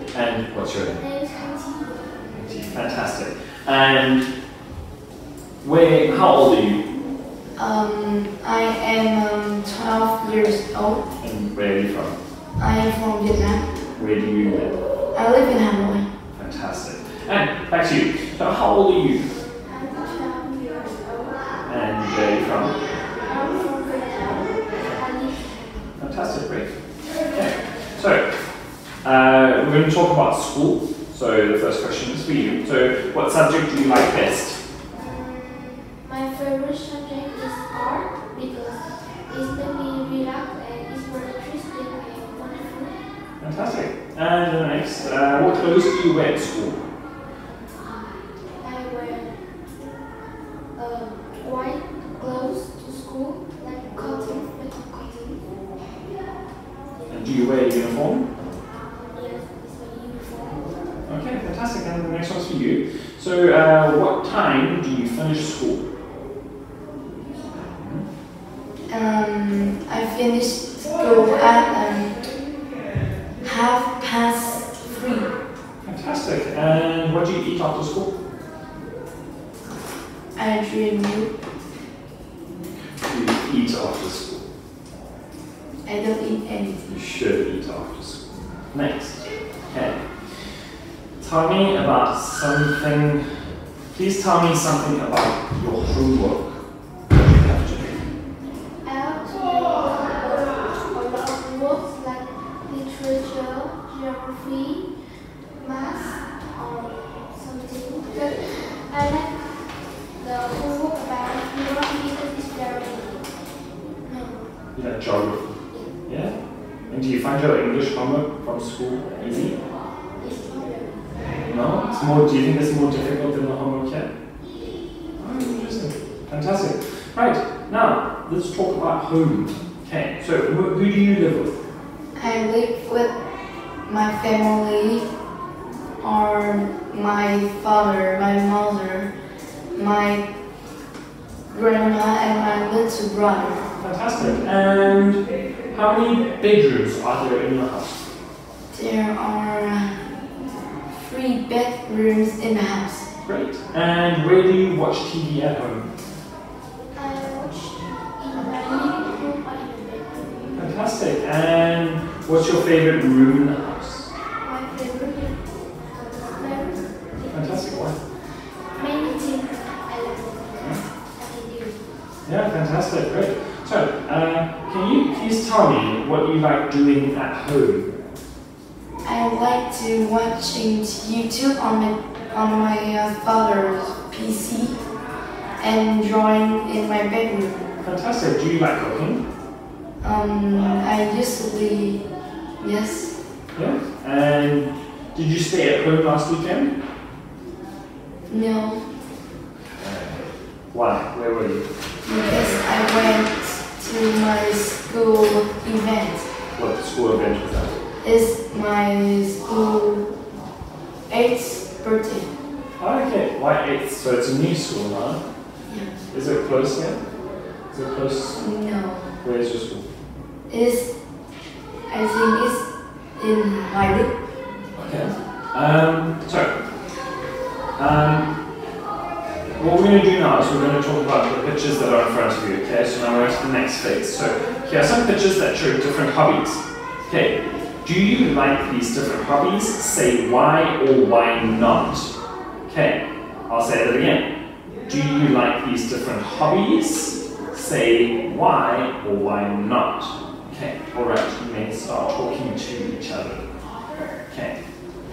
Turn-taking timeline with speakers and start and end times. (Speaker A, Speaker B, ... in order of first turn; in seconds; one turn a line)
Speaker A: 0.1-1.0
Speaker B: 1.0-2.2
Speaker A: 2.3-4.3
Speaker A: 5.6-6.8
Speaker C: 7.6-11.1
Speaker A: 11.2-12.2
Speaker C: 12.6-13.7
Speaker A: 14.0-14.8
Speaker C: 15.1-16.1
Speaker A: 16.4-19.3
Speaker B: 19.6-21.6
Speaker A: 21.7-22.8
Speaker B: 23.1-25.9
Speaker A: 26.0-26.8
Speaker A: 27.3-28.2
Speaker A: 29.0-34.6
Speaker B: 34.9-43.0
Speaker A: 43.4-46.8
Speaker B: 48.6-49.4
Speaker B: 50.8-55.4
Speaker A: 57.1-58.3
Speaker B: 59.1-60.7
Speaker A: 61.1-65.9
Speaker A: 67.7-68.0
Speaker C: 68.9-72.2
Speaker C: 73.4-75.3
Speaker A: 75.8-78.1
Speaker C: 80.4-81.3
Speaker A: 83.0-84.4
Speaker C: 85.8-86.9
Speaker A: 86.9-88.2
Speaker A: 88.7-90.1
Speaker A: 91.2-93.2
Speaker A: 93.9-96.6
Speaker A: 97.1-98.1
Speaker B: 98.8-104.9
Speaker B: 105.6-109.6
Speaker B: 110.2-113.3
Speaker B: 114.0-114.4
Speaker A: 114.8-116.3
Speaker A: 116.9-119.6
Speaker B: 120.2-121.0
Speaker A: 121.5-124.1
Speaker A: 125.2-131.5
Speaker C: 132.2-133.1
Speaker C: 133.9-135.1
Speaker C: 136.0-139.1
Speaker C: 139.7-140.2
Speaker C: 141.5-143.6
Speaker A: 143.8-148.1
Speaker C: 148.7-150.0
Speaker C: 150.9-153.1
Speaker A: 153.2-155.9
Speaker B: 156.9-160.7
Speaker A: 160.6-164.1
Speaker B: 164.4-167.8
Speaker A: 167.3-168.0
Speaker B: 168.7-171.8
Speaker A: 172.3-177.9
Speaker C: 179.0-184.8
Speaker C: 185.6-187.7
Speaker A: 187.8-189.2
Speaker C: 190.0-192.0
Speaker C: 192.6-193.2
Speaker A: 193.6-196.7
Speaker C: 198.3-198.8
Speaker A: 199.8-201.7
Speaker C: 202.1-206.3
Speaker A: 206.6-207.8
Speaker C: 208.0-210.1
Speaker C: 211.1-212.3
Speaker A: 212.8-215.2
Speaker C: 215.7-215.9
Speaker A: 216.1-217.0
Speaker A: 217.7-218.4
Speaker C: 218.4-219.1
Speaker A: 219.2-219.8
Speaker C: 220.5-220.9
Speaker C: 221.9-224.1
Speaker A: 224.8-226.5
Speaker A: 227.8-228.3
Speaker A: 229.6-242.1
Speaker A: 242.7-244.3
Speaker A: 244.8-253.4
Speaker A: 254.3-254.6